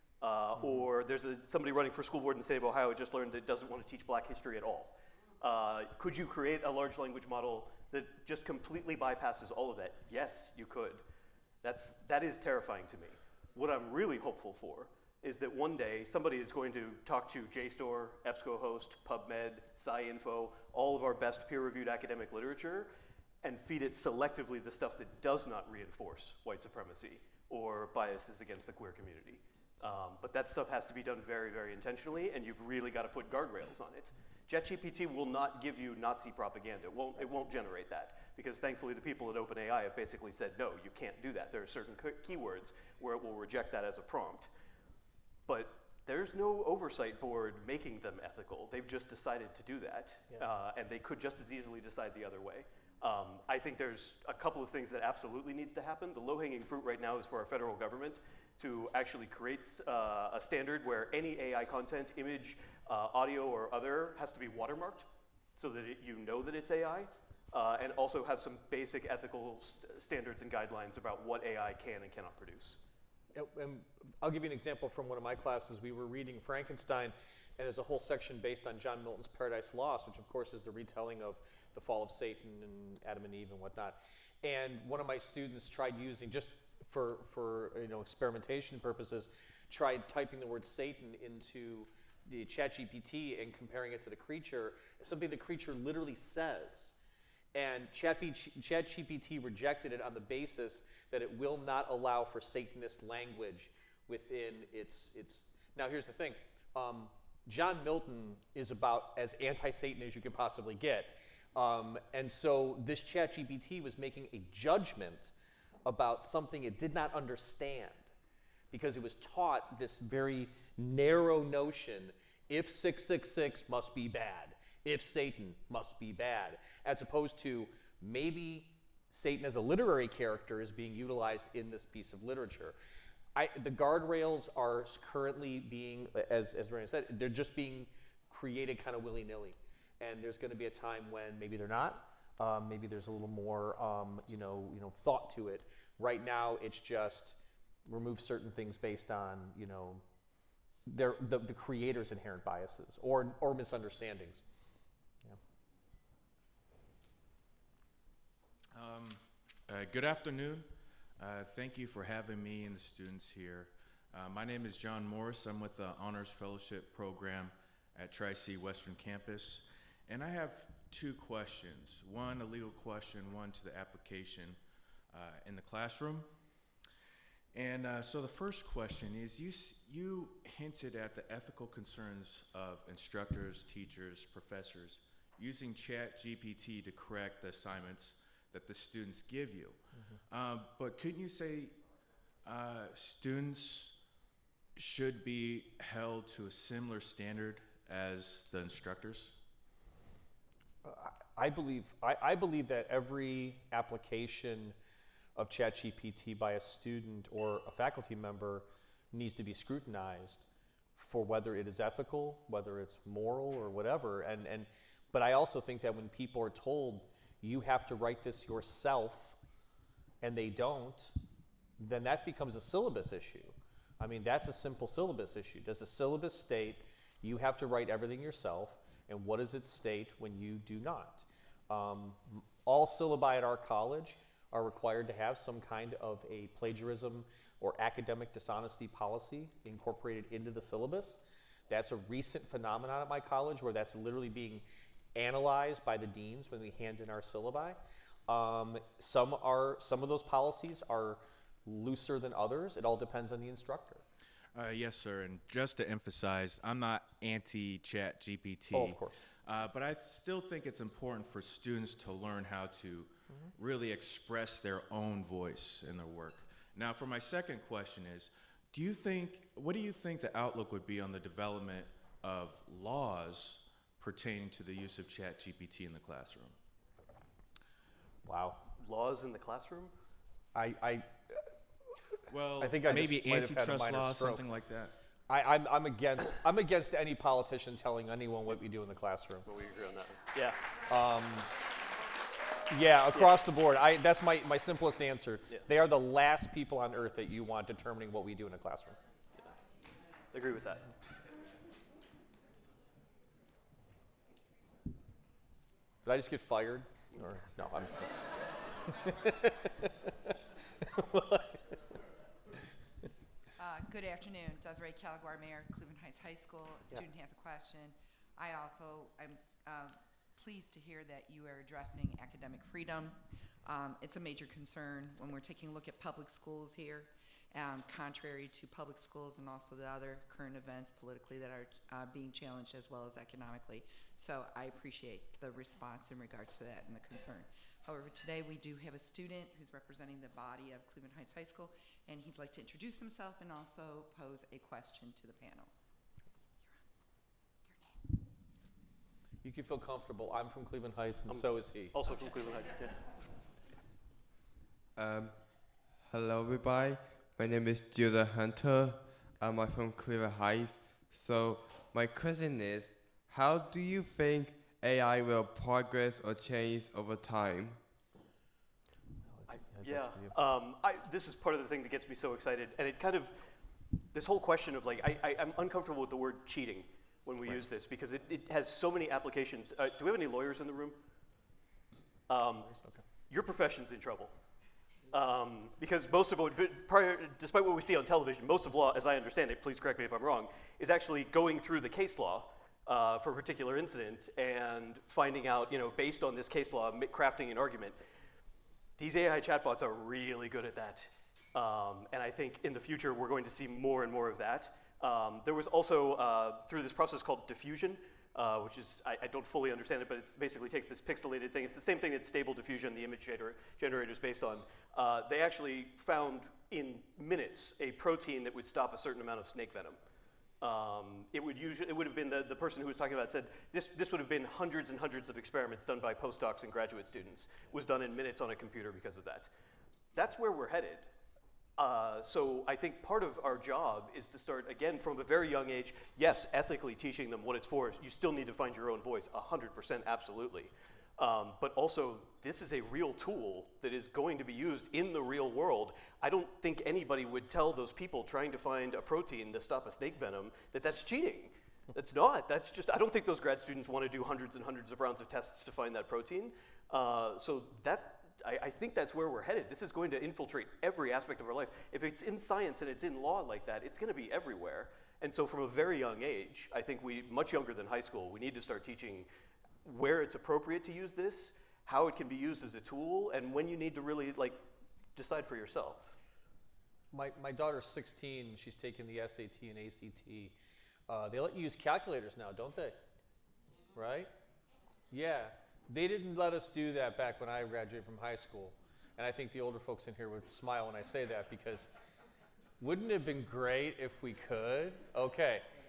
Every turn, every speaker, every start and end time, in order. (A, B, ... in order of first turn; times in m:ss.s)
0:00.2-0:11.0 A
0:00.6-0:00.9 B
0:11.6-0:22.9 A
0:23.4-0:44.5 A
0:45.5-1:12.8 A
1:13.3-1:37.0 B
1:37.6-1:55.3 B
1:55.8-1:58.1 B
1:58.7-2:12.8 B
2:13.4-2:30.0 B
2:30.9-2:34.4 B
2:38.7-2:54.6 C
2:55.1-2:56.3 C
2:57.5-3:11.8 C
3:09.9-3:10.2 B
3:12.4-3:14.0 C
3:14.8-3:19.4 C
3:20.8-3:24.8 B
3:25.4-3:39.4 B
3:40.2-3:41.2 B
3:41.8-4:04.6 B
4:05.2-4:14.0 B
4:14.5-4:36.6 C
4:18.7-4:19.2 B
4:38.2-4:38.6 B
4:38.8-4:39.9 A
4:40.6-4:41.5 B
4:42.3-4:44.9 C
4:42.6-4:44.4 B
4:45.3-4:49.5 B
4:49.5-4:50.6 A
4:50.9-4:51.5 B
4:52.7-4:59.0 B
5:00.3-5:00.8 A
5:06.0-5:10.2 B
5:10.8-5:11.8 B
5:13.6-5:45.7 D
5:49.4-5:52.0 B
5:51.3-5:53.0 A
5:55.0-5:55.4 E
5:56.0-6:07.8 E
6:09.3-6:10.4 B
6:09.5-6:13.5 A
6:14.1-6:21.0 A
6:22.3-6:22.7 A
6:22.6-6:23.0 B
6:23.3-6:24.3 A
6:25.1-6:38.0 A
6:39.0-7:00.0 A
7:00.6-7:09.5 A
7:10.2-7:11.1 A
7:11.8-7:49.3 A
7:49.8-7:54.6 A
7:55.2-7:56.2 A
7:57.1-8:00.6 B
8:01.1-8:03.0 B
8:04.0-8:04.3 B
8:05.1-8:11.9 B
8:12.8-8:15.7 B